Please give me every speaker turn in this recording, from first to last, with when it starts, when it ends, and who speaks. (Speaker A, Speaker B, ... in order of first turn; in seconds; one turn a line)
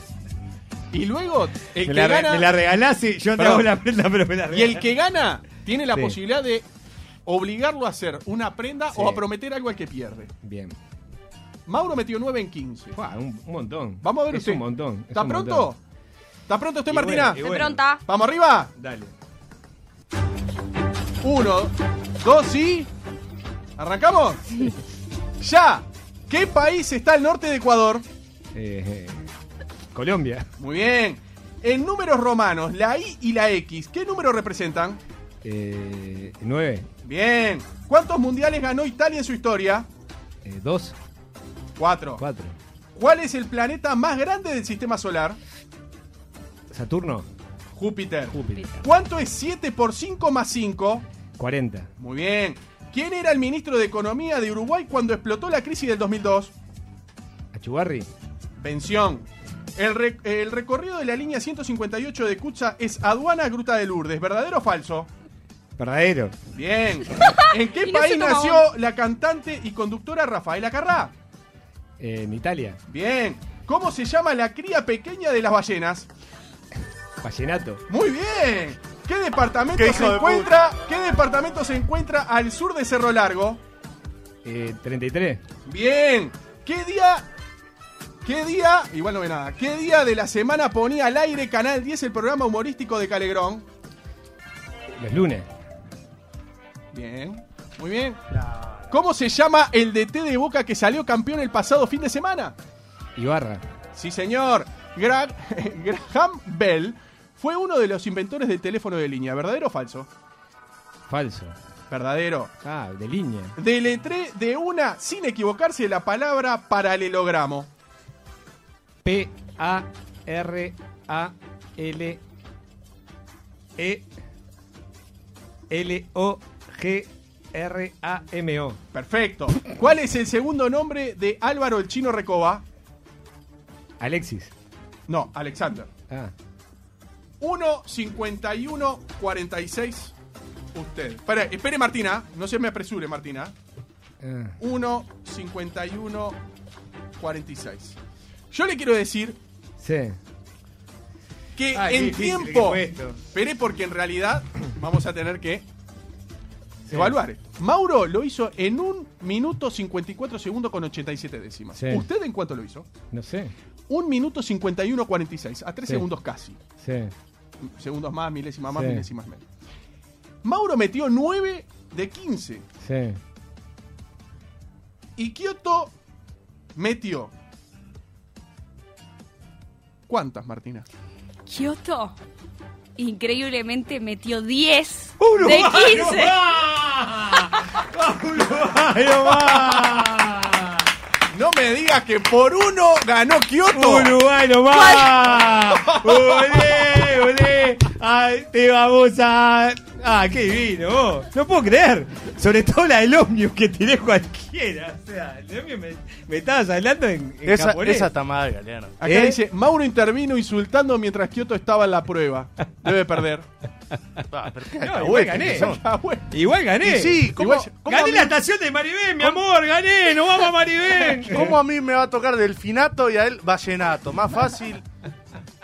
Speaker A: 0.9-2.5
Speaker B: 1.9-4.9
Speaker A: 3.4-3.7
Speaker A: 4.5-6.7
Speaker B: 5.9-6.2
Speaker A: 7.3-10.3
Speaker B: 8.9-9.2
Speaker B: 10.4-10.8
Speaker A: 11.7-13.0
Speaker B: 12.9-15.7
Speaker A: 14.0-15.8
Speaker A: 16.5-17.5
Speaker B: 16.9-17.9
Speaker C: 17.4-18.0
Speaker A: 18.0-18.7
Speaker B: 18.8-19.1
Speaker A: 21.2-22.9
Speaker A: 23.8-24.7
Speaker A: 25.4-28.1
Speaker B: 28.5-29.2
Speaker B: 29.9-30.5
Speaker A: 30.6-35.0
Speaker B: 35.4-36.9
Speaker A: 37.0-39.9
Speaker B: 40.4-41.0
Speaker A: 41.8-42.2
Speaker B: 42.2-42.6
Speaker A: 43.0-45.4
Speaker B: 46.7-47.3
Speaker A: 47.7-51.0
Speaker B: 48.3-48.8
Speaker B: 51.4-51.9
Speaker A: 52.0-56.5
Speaker B: 57.5-58.1
Speaker A: 58.6-65.1
Speaker B: 65.8-66.3
Speaker A: 66.5-71.1
Speaker C: 67.2-68.7
Speaker B: 72.0-72.8
Speaker A: 72.9-76.1
Speaker B: 77.2-77.8
Speaker A: 77.9-83.6
Speaker D: 79.7-80.6
Speaker B: 84.4-85.4
Speaker A: 85.7-87.3
Speaker A: 88.2-93.7
Speaker B: 94.9-95.5
Speaker A: 96.9-98.2
Speaker D: 98.3-98.8
Speaker A: 98.9-102.5
Speaker B: 103.2-103.6
Speaker A: 103.9-110.1
Speaker B: 111.1-111.6
Speaker A: 111.9-112.5
Speaker B: 112.6-113.6
Speaker A: 113.6-117.7
Speaker B: 119.0-122.2
Speaker B: 123.8-124.1
Speaker B: 125.7-128.8
Speaker A: 128.9-132.6
Speaker B: 134.0-134.5
Speaker A: 135.1-135.9
Speaker A: 137.4-140.1
Speaker A: 140.8-143.5
Speaker B: 144.2-144.6
Speaker A: 144.6-146.4
Speaker A: 147.2-147.9
Speaker A: 148.5-149.4
Speaker B: 149.8-150.2
Speaker A: 151.6-155.7
Speaker B: 151.7-153.2
Speaker B: 156.9-157.2
Speaker A: 156.9-162.9
Speaker B: 161.8-162.1
Speaker B: 163.1-163.5
Speaker A: 163.9-166.6
Speaker B: 166.8-167.1
Speaker A: 167.6-169.4
Speaker B: 168.7-169.0
Speaker A: 170.4-172.6
Speaker B: 172.8-173.2
Speaker A: 175.2-175.9
Speaker A: 176.8-177.3
Speaker A: 180.1-180.9
Speaker C: 181.5-182.2
Speaker C: 183.0-186.4
Speaker B: 185.2-190.8
Speaker A: 191.3-194.2
Speaker B: 193.7-208.1
Speaker C: 194.7-195.2
Speaker A: 195.6-196.6
Speaker D: 207.4-209.0
Speaker A: 209.0-213.5
Speaker B: 209.0-209.4
Speaker D: 214.3-215.8
Speaker B: 214.6-215.8
Speaker A: 215.4-216.3
Speaker B: 216.3-217.3
Speaker D: 216.8-218.3
Speaker A: 217.4-217.7
Speaker B: 217.8-221.6
Speaker D: 221.2-224.8